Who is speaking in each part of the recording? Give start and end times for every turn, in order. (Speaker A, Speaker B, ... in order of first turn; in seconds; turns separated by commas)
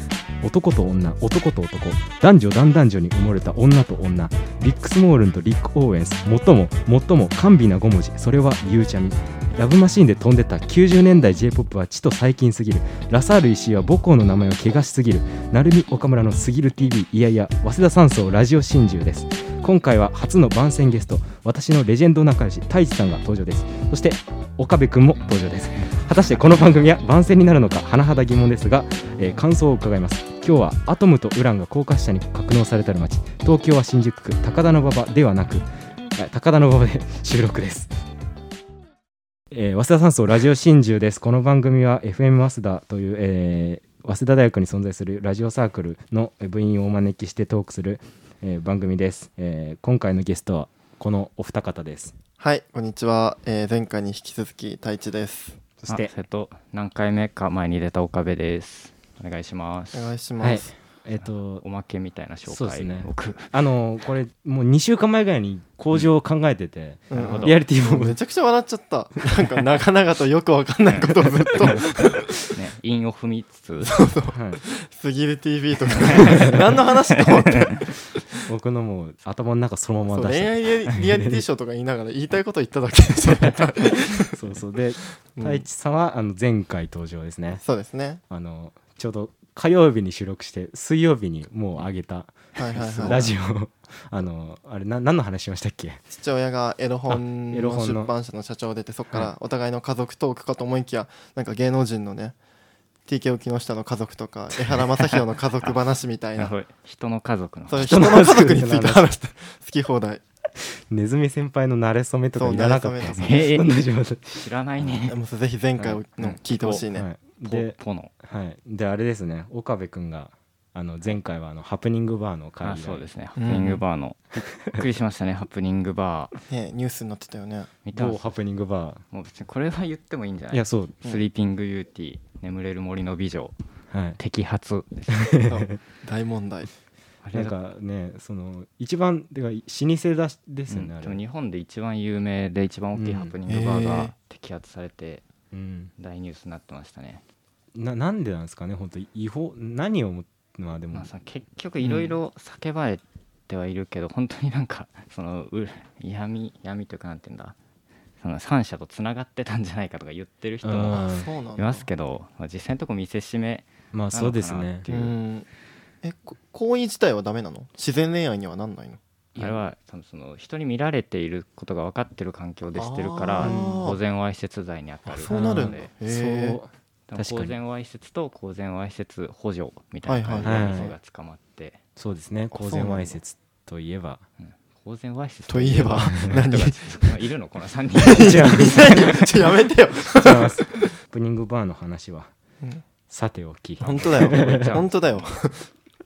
Speaker A: 0.4-37.9, Speaker A: 39.5-52.2, Speaker B: 52.4-55.6, Speaker A: 55.8-56.1, Speaker C: 55.9-60.1, Speaker B: 59.9-60.7, Speaker A: 60.4-61.6, Speaker C: 61.2-63.6, Speaker A: 62.5-68.2, Speaker B: 67.1-72.5, Speaker C: 67.1-67.6, Speaker C: 70.9-74.0, Speaker B: 73.8-78.0, Speaker A: 74.3-74.6, Speaker C: 75.9-77.9, Speaker A: 76.2-76.6, Speaker A: 78.5-81.4, Speaker B: 80.1-84.4, Speaker A: 84.2-87.6, Speaker B: 85.3-85.7, Speaker B: 87.6-88.2, Speaker A: 88.3-96.0, Speaker B: 92.5-93.3, Speaker B: 96.1-102.3, Speaker A: 97.1-98.1, Speaker B: 103.1-106.5, Speaker C: 104.7-105.8, Speaker C: 106.4-108.2, Speaker B: 107.7-110.2, Speaker A: 107.8-109.1, Speaker A: 110.6-114.5, Speaker B: 112.3-113.5, Speaker C: 113.2-113.7, Speaker C: 114.3-115.2, Speaker B: 115.1-117.1, Speaker C: 115.8-116.9, Speaker A: 116.9-123.1, Speaker C: 117.5-118.1, Speaker C: 122.6-126.3, Speaker B: 123.4-123.8, Speaker A: 124.6-124.8, Speaker B: 126.5-127.7, Speaker C: 127.8-128.2, Speaker A: 127.9-129.0, Speaker C: 129.1-133.6, Speaker A: 130.5-130.9, Speaker A: 133.9-134.2, Speaker C: 134.2-135.3, Speaker A: 135.2-135.7, Speaker B: 135.4-136.7, Speaker C: 137.2-137.6, Speaker A: 137.3-141.2, Speaker C: 140.7-145.2, Speaker A: 142.9-143.3, Speaker B: 143.5-144.1, Speaker A: 145.5-145.9, Speaker C: 146.0-147.2, Speaker A: 147.7-151.1, Speaker C: 150.9-157.6, Speaker B: 151.8-152.1, Speaker C: 158.2-165.2, Speaker A: 160.6-161.3, Speaker B: 160.9-161.9, Speaker A: 163.9-164.9, Speaker B: 164.9-165.5, Speaker B: 166.0-169.0, Speaker C: 169.3-175.9, Speaker B: 172.7-174.0, Speaker A: 173.4-173.9, Speaker B: 175.1-176.6, Speaker A: 175.3-177.5, Speaker C: 177.1-181.8, Speaker B: 180.1-180.8, Speaker A: 180.4-180.9, Speaker A: 182.0-184.2, Speaker B: 182.5-183.2, Speaker C: 184.4-189.3, Speaker B: 185.5-186.8, Speaker B: 188.0-190.9, Speaker A: 188.1-189.2, Speaker A: 190.2-192.3, Speaker A: 193.1-194.7, Speaker B: 193.8-195.7, Speaker C: 193.8-195.4